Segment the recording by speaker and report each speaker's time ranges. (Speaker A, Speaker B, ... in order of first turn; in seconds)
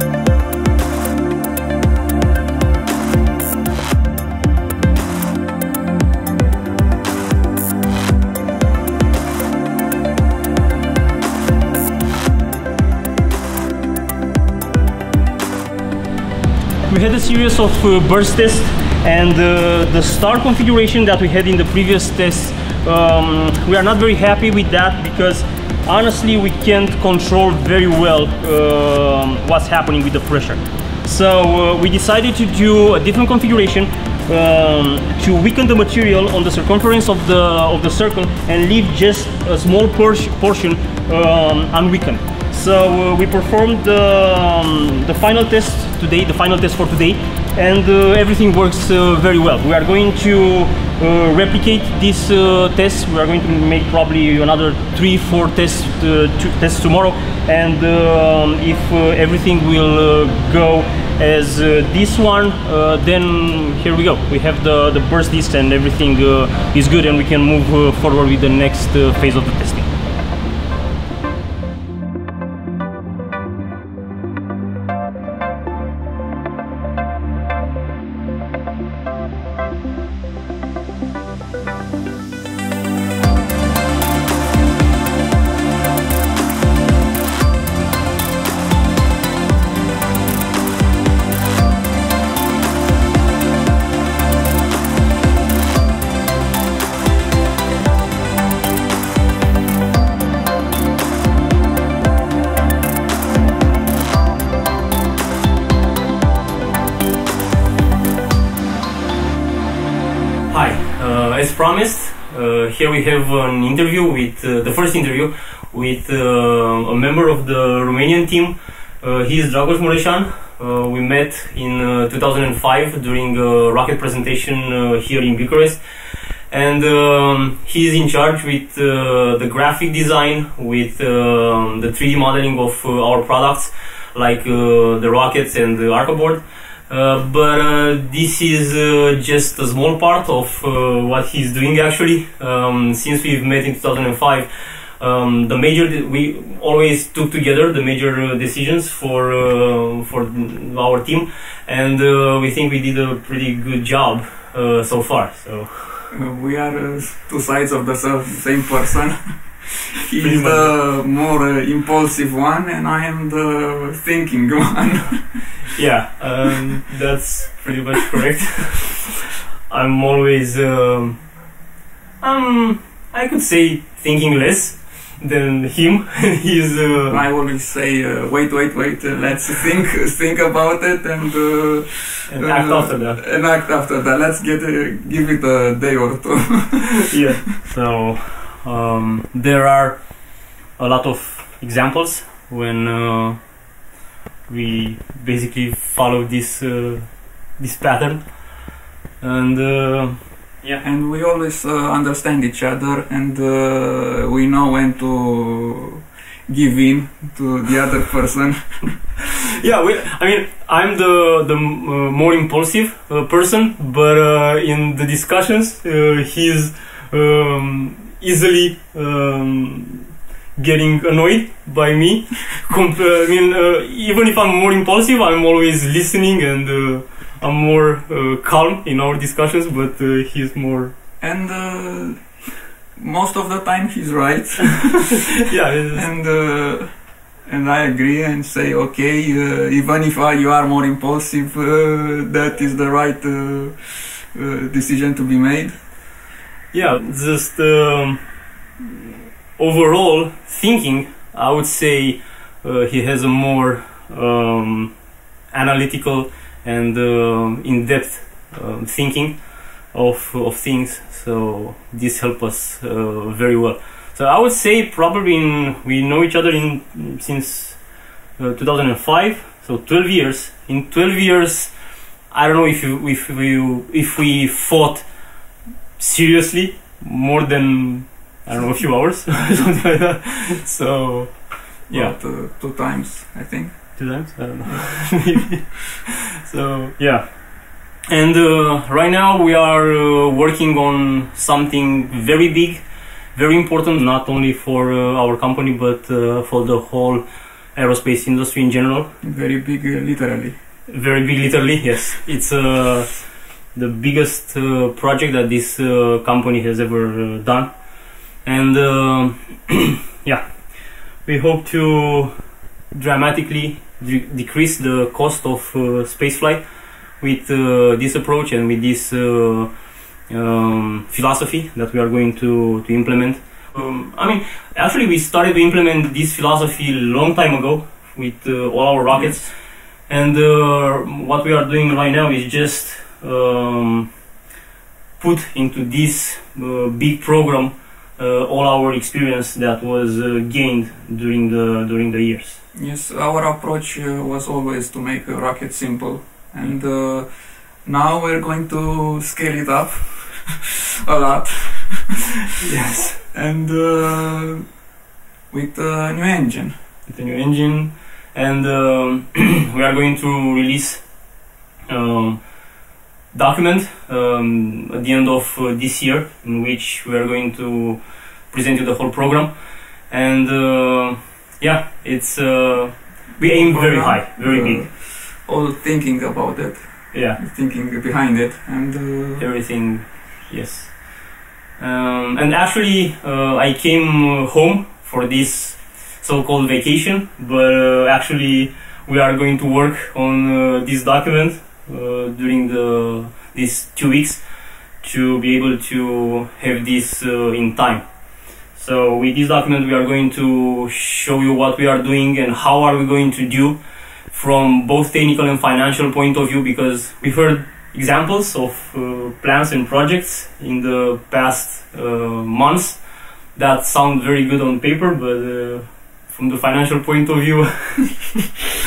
Speaker A: 16.9-69.9, 110.5-156.1, 160.2-160.8, 165.8-171.5, 172.2-177.3, 182.3-183.2, 187.0-193.7, 194.5-200.8, 209.6-231.0, 235.3-236.1, 246.7-282.2, 283.9-299.1, 300.9-334.2, 335.2-342.6, 352.6-353.2, 357.1-361.3, 361.9-362.8, 363.3-374.9, 377.1-377.4, 379.4-418.3
Speaker B: 156.1-165.6, 177.1-187.0, 200.8-208.9, 231.2-232.4, 232.9-235.2, 235.9-245.8, 281.9-284.0, 299.2-300.6, 342.7-352.2, 353.3-354.7, 355.5-356.7, 373.4-379.5